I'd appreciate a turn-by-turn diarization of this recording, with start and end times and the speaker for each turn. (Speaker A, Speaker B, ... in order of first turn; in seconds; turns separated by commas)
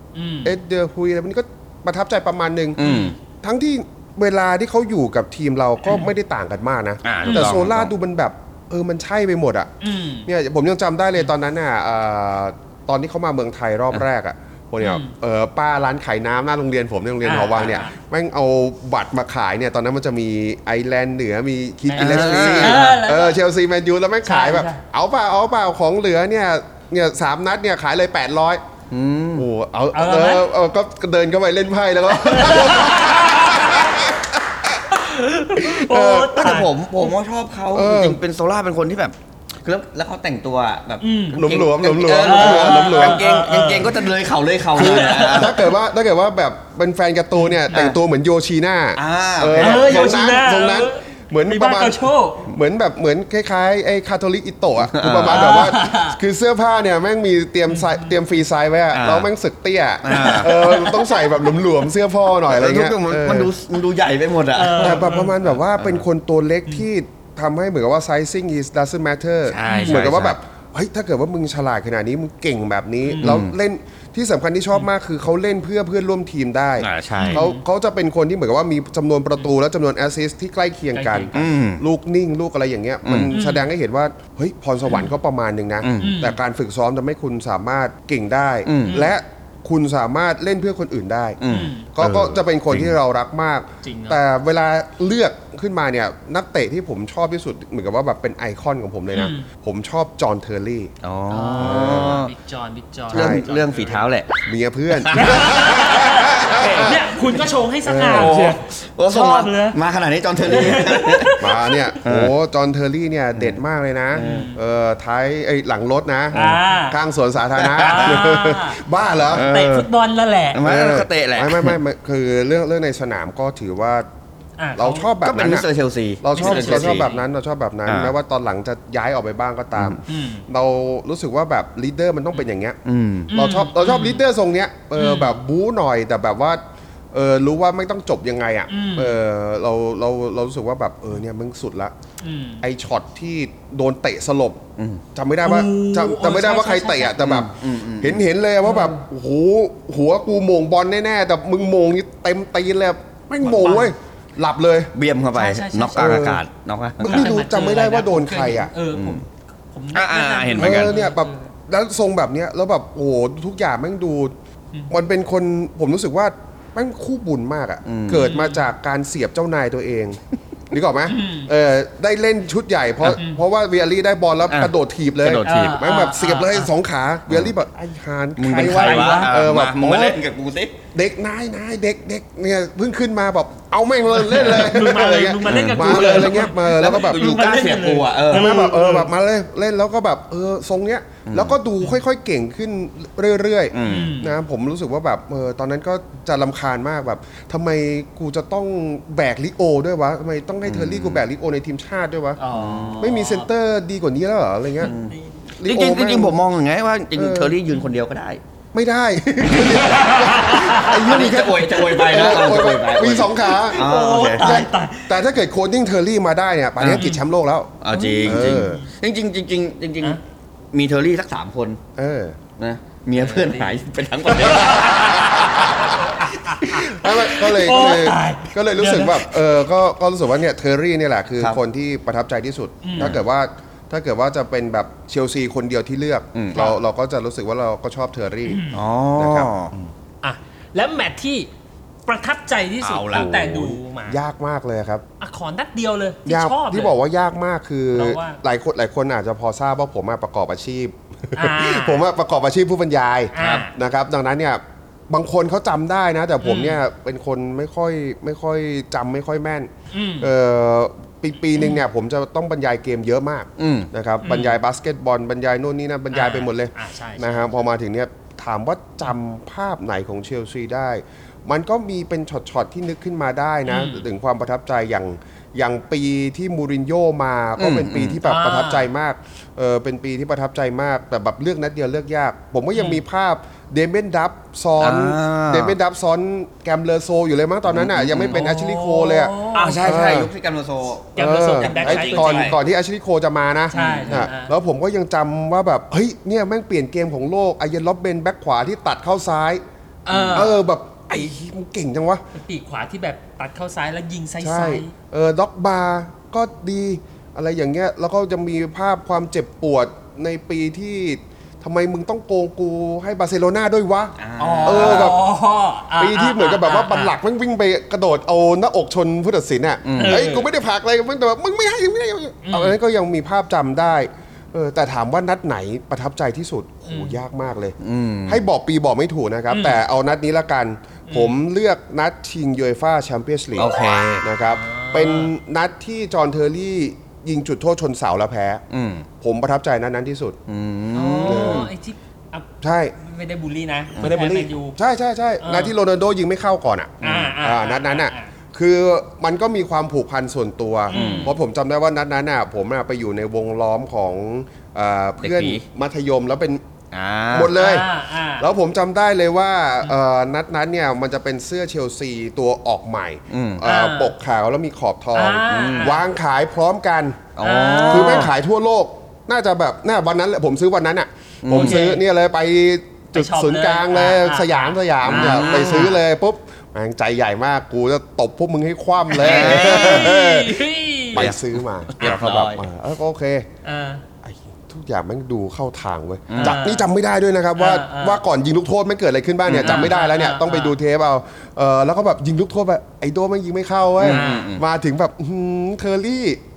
Speaker A: 0.1-0.5, Speaker B: 0.4-2.8, Speaker C: 2.8-3.1, Speaker A: 2.8-3.1, Speaker B: 3.4-9.7, Speaker C: 7.0-7.9, Speaker A: 7.2-7.6, Speaker A: 9.8-10.3, Speaker B: 10.2-28.6, Speaker A: 14.8-15.1, Speaker A: 17.2-17.9, Speaker A: 21.9-23.4, Speaker C: 21.9-22.9, Speaker A: 24.2-24.8, Speaker C: 28.9-29.5, Speaker B: 29.4-34.8, Speaker A: 29.9-30.4, Speaker A: 32.1-34.0, Speaker A: 34.9-36.7, Speaker B: 35.5-36.6, Speaker C: 36.3-45.6, Speaker B: 37.7-38.2, Speaker A: 41.0-41.4, Speaker B: 41.4-43.2, Speaker A: 42.2-44.1, Speaker A: 44.7-45.7, Speaker B: 44.7-63.5, Speaker A: 47.4-47.8, Speaker C: 47.7-48.0, Speaker C: 49.0-50.1, Speaker A: 49.5-52.5, Speaker C: 54.9-55.7, Speaker A: 55.3-56.2, Speaker A: 57.7-58.1, Speaker C: 58.9-59.3, Speaker C: 60.0-60.8, Speaker A: 60.1-61.5, Speaker C: 62.5-65.0, Speaker A: 64.5-65.3, Speaker B: 64.7-91.4, Speaker C: 65.7-66.0, Speaker C: 69.5-70.3, Speaker A: 69.7-70.0, Speaker A: 73.1-73.4, Speaker C: 73.2-73.5, Speaker C: 76.8-77.5, Speaker A: 77.2-77.6, Speaker A: 80.9-81.4, Speaker C: 81.3-81.8, Speaker C: 83.0-83.3, Speaker A: 83.3-83.7, Speaker C: 85.8-86.2, Speaker A: 86.0-86.4, Speaker C: 88.6-89.1, Speaker A: 88.8-89.1, Speaker C: 91.4-92.9, Speaker A: 91.5-91.9, Speaker B: 91.9-100.9, Speaker A: 93.8-94.2, Speaker A: 99.1-99.5, Speaker C: 101.0-102.3, Speaker A: 101.3-104.0, Speaker B: 101.5-102.2, Speaker B: 103.1-103.5, Speaker C: 103.1-104.4, Speaker B: 104.4-107.0, Speaker C: 104.9-105.4, Speaker A: 105.1-109.8, Speaker C: 106.3-107.4, Speaker B: 107.8-108.4, Speaker C: 108.1-111.4, Speaker A: 110.4-111.9, Speaker B: 111.4-119.5, Speaker C: 112.0-112.3, Speaker C: 114.1-114.5, Speaker A: 114.1-114.6, Speaker C: 116.3-116.6, Speaker A: 116.3-117.0, Speaker C: 117.5-118.2, Speaker A: 117.8-118.8, Speaker C: 119.3-119.9, Speaker A: 119.3-120.6, Speaker C: 120.5-121.8, Speaker B: 120.6-124.1, Speaker A: 124.6-125.1, Speaker B: 124.7-125.7, Speaker C: 125.2-127.1, Speaker B: 126.2-132.8, Speaker A: 126.3-127.2, Speaker C: 127.8-128.1, Speaker C: 129.7-130.0, Speaker A: 130.1-130.4, Speaker C: 132.8-133.3, Speaker A: 133.3-134.2, Speaker B: 133.3-136.6, Speaker A: 134.9-135.4, Speaker B: 137.1-141.9, Speaker A: 138.7-139.2, Speaker A: 142.2-142.6, Speaker B: 142.6-154.9, Speaker C: 144.8-145.0, Speaker A: 145.4-147.3, Speaker C: 147.2-148.2, Speaker A: 148.6-149.0, Speaker A: 153.4-153.9, Speaker C: 154.9-157.4, Speaker A: 155.3-156.2, Speaker B: 155.9-156.4, Speaker A: 157.0-161.5, Speaker B: 157.0-158.7, Speaker C: 158.9-159.2, Speaker C: 159.9-160.9, Speaker B: 160.6-164.3, Speaker B: 164.9-170.2, Speaker C: 167.8-168.3, Speaker A: 168.2-168.7, Speaker B: 170.7-180.2, Speaker A: 171.1-171.5, Speaker A: 173.1-173.4, Speaker C: 174.5-175.8, Speaker A: 175.4-176.7, Speaker C: 178.4-180.8, Speaker A: 178.6-179.3, Speaker B: 180.9-187.4, Speaker A: 184.1-189.1, Speaker C: 185.4-188.6, Speaker B: 188.3-202.4, Speaker C: 191.2-191.6, Speaker C: 193.7-194.1, Speaker A: 193.8-194.3, Speaker C: 200.6-201.2, Speaker A: 202.4-203.5, Speaker C: 202.5-203.1, Speaker B: 203.0-204.9, Speaker A: 204.8-205.4, Speaker C: 204.8-208.4, Speaker B: 205.6-206.4, Speaker B: 207.1-207.6, Speaker B: 208.7-213.9, Speaker A: 209.6-215.1, Speaker C: 210.9-214.7, Speaker B: 214.4-218.8, Speaker C: 216.8-217.1, Speaker A: 216.9-217.2, Speaker C: 217.8-220.2, Speaker A: 217.9-218.9, Speaker C: 220.7-221.8, Speaker B: 221.9-222.4, Speaker C: 222.6-226.0, Speaker A: 223.2-223.8, Speaker B: 224.4-225.9, Speaker A: 224.4-229.3, Speaker B: 226.6-238.6, Speaker A: 232.8-233.1, Speaker C: 236.3-236.7, Speaker A: 238.5-238.8, Speaker C: 238.7-239.7, Speaker B: 239.2-239.8, Speaker A: 240.2-241.5, Speaker A: 242.1-244.2, Speaker C: 242.8-243.3, Speaker B: 243.1-245.0, Speaker A: 245.2-246.9, Speaker B: 246.2-290.3, Speaker A: 247.9-248.4, Speaker A: 251.3-252.0, Speaker A: 253.3-253.7, Speaker C: 253.4-253.6, Speaker A: 256.4-256.8, Speaker A: 259.9-260.3, Speaker C: 263.6-263.9, Speaker A: 264.2-264.6, Speaker A: 266.1-267.4, Speaker A: 273.7-274.0, Speaker C: 277.6-278.2, Speaker A: 278.2-278.9, Speaker A: 282.7-283.0, Speaker C: 284.8-285.8, Speaker C: 287.7-288.4, Speaker A: 288.2-290.1, Speaker C: 289.5-292.6, Speaker A: 291.1-292.6, Speaker B: 291.1-299.6, Speaker A: 293.7-294.5, Speaker C: 293.7-294.3, Speaker A: 300.0-300.6, Speaker B: 300.1-302.2, Speaker A: 302.3-304.9, Speaker B: 304.4-315.2, Speaker C: 314.2-315.2, Speaker A: 314.4-317.1, Speaker B: 316.0-327.7, Speaker C: 319.9-320.3, Speaker A: 320.0-320.5, Speaker A: 322.4-322.8, Speaker A: 326.9-327.2, Speaker C: 327.8-328.4, Speaker B: 328.3-338.6, Speaker A: 329.5-329.8, Speaker A: 331.1-331.3, Speaker C: 333.6-334.2, Speaker A: 334.4-335.3, Speaker C: 338.7-339.1, Speaker B: 339.2-340.4, Speaker C: 340.5-341.7, Speaker A: 340.9-342.4, Speaker B: 341.2-341.7, Speaker B: 342.6-342.9, Speaker A: 343.0-344.8, Speaker B: 344.0-356.6, Speaker A: 345.4-345.7, Speaker C: 347.0-347.3, Speaker A: 347.0-348.3, Speaker A: 350.9-351.3, Speaker C: 350.9-351.3, Speaker C: 355.2-355.6, Speaker C: 356.9-357.5, Speaker B: 357.3-357.9, Speaker A: 357.5-358.5, Speaker B: 358.4-367.3, Speaker C: 363.3-363.6, Speaker A: 363.6-364.1, Speaker A: 365.1-366.0, Speaker C: 365.5-365.9, Speaker C: 367.4-368.3, Speaker A: 367.4-368.3, Speaker B: 367.9-383.5, Speaker C: 371.4-371.9, Speaker A: 371.5-372.0, Speaker A: 373.1-376.0, Speaker C: 375.0-376.0, Speaker A: 379.1-381.3, Speaker C: 379.2-380.1, Speaker C: 381.1-382.6, Speaker A: 383.6-384.0, Speaker B: 384.2-396.4, Speaker C: 386.3-386.6, Speaker A: 386.4-386.9, Speaker A: 387.6-388.2, Speaker C: 389.4-389.9, Speaker A: 389.5-390.7, Speaker C: 394.0-394.6, Speaker A: 394.0-394.5